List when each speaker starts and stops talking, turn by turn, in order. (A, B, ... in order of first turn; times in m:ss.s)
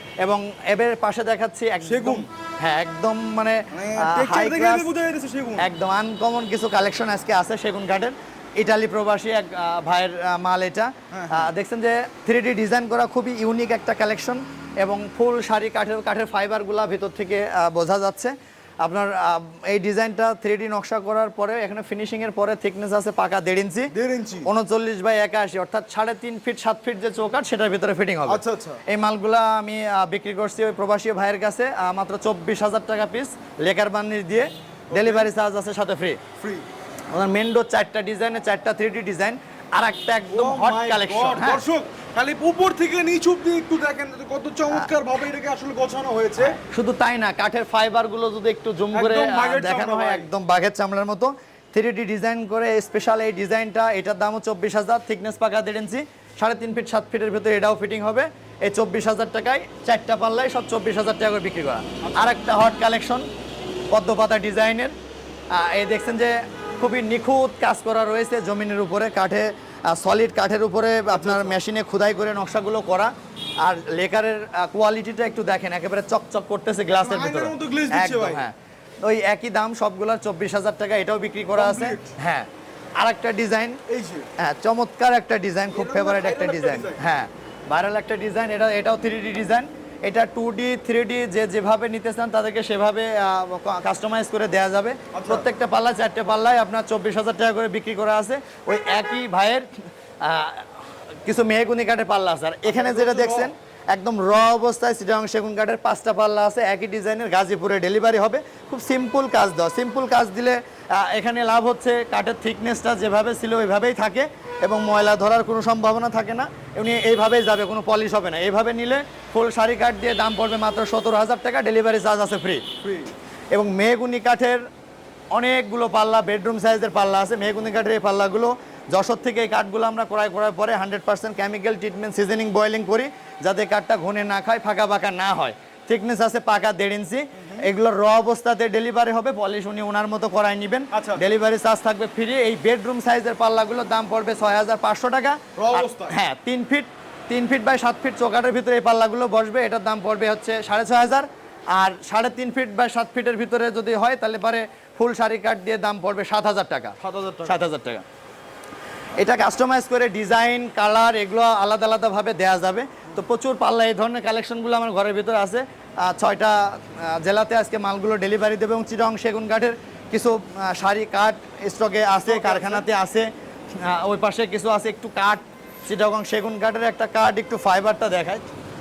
0:00.2-0:04.9 A
0:01.8-0:02.2 B
0:03.7-0:05.6 B
0:05.6-0:23.9 A
0:11.1-0:11.5 B
0:23.9-0:24.5 B
0:24.4-0:36.2 A
0:28.3-0:28.8 B
0:34.9-0:35.3 B
0:36.4-0:36.6 B
0:37.1-0:41.6 A
0:40.3-0:46.6 B
0:46.4-1:03.3 A
0:48.9-0:50.3 B
1:02.0-1:02.4 B
1:03.9-1:04.9 A
1:05.5-1:23.8 A
1:11.1-1:11.6 B
1:16.9-1:18.4 B
1:21.5-1:22.1 B
1:23.9-1:24.3 B
1:24.4-1:39.7 A
1:25.7-1:27.0 B
1:35.1-1:35.4 B
1:40.2-2:02.7 A
1:42.6-1:43.5 B
2:02.8-2:03.1 B
2:03.5-2:04.6 A
2:05.3-2:38.0 A
2:17.3-2:17.6 B
2:20.9-2:21.2 B
2:25.6-2:26.1 B
2:37.0-2:37.5 B
2:39.2-2:58.4 A
2:52.2-2:52.8 B